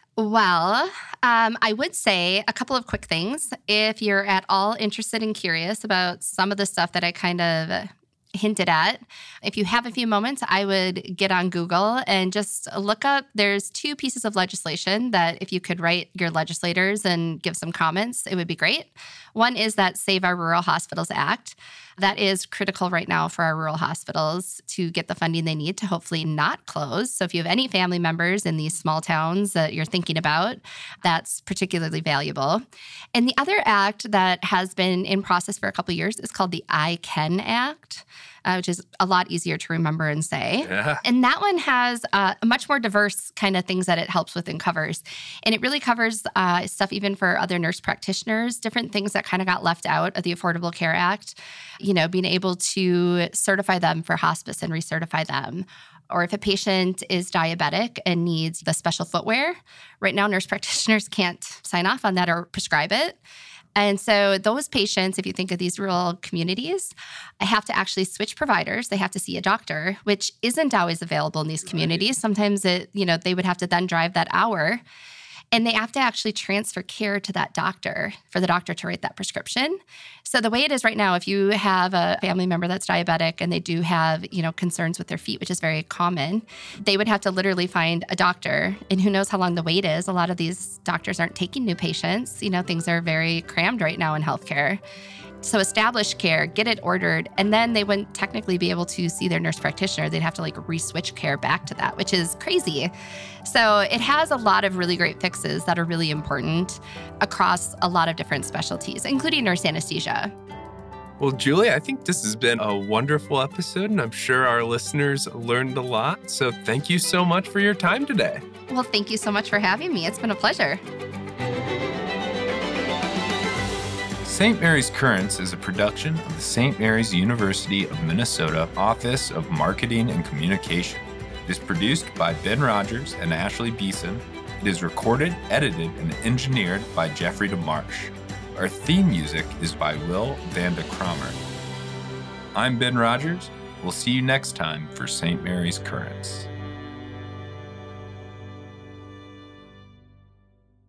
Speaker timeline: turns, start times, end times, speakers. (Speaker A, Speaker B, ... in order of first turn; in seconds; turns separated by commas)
Speaker A: 0.2-63.2, Speaker B: 40.6-41.0, Speaker A: 63.8-74.8, Speaker B: 71.7-72.1, Speaker A: 75.5-94.8, Speaker A: 95.4-102.9, Speaker A: 103.4-110.3, Speaker B: 111.2-118.4, Speaker A: 118.7-120.8, Speaker C: 124.2-141.4, Speaker C: 142.5-146.5